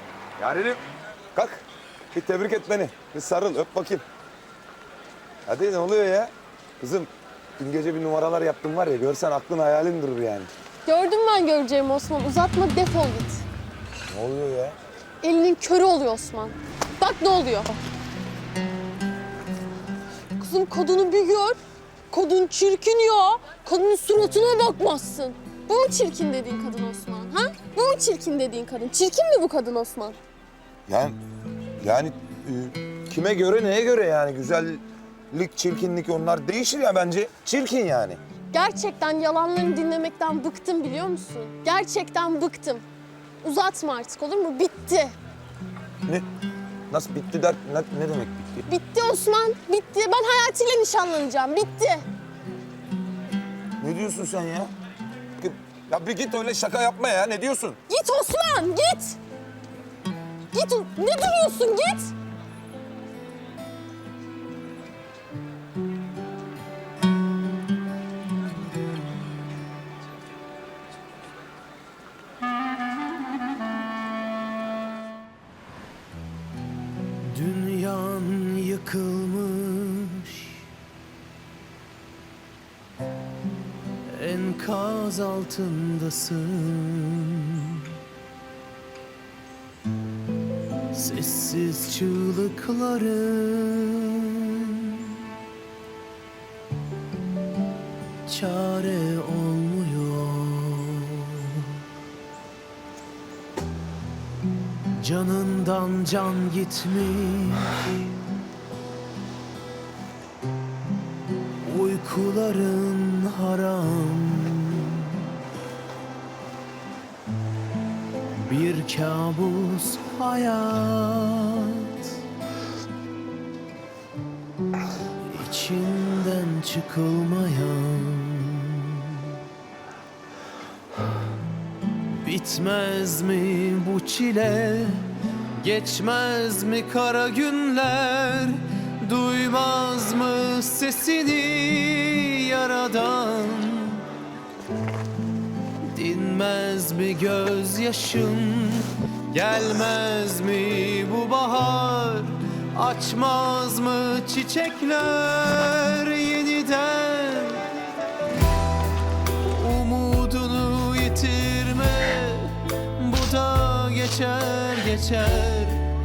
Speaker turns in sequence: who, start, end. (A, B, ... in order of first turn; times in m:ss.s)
0:00.4-0:00.8 A
0:01.3-0:04.0 A
0:05.5-0:10.5 A
0:10.9-0:13.4 B
0:14.1-0:14.8 A
0:15.2-0:17.8 B
0:20.4-0:21.6 B
0:22.1-0:30.2 B
0:30.9-0:31.2 A
0:31.8-0:38.2 A
0:38.5-0:42.8 B
0:43.4-0:45.2 B
0:46.9-0:48.7 A
0:48.7-0:52.0 B
0:53.8-0:54.7 A
0:55.4-0:57.8 A
0:57.9-0:59.2 B
1:00.5-1:02.1 B
1:17.3-1:20.7 C
1:24.1-1:27.9 C
1:30.9-1:35.3 C
1:38.3-1:41.8 C
1:45.0-1:48.0 C
1:51.6-1:55.4 C
1:58.4-2:02.1 C
2:05.2-2:09.4 C
2:12.2-2:24.1 C
2:25.9-2:37.7 C
2:39.4-2:45.9 C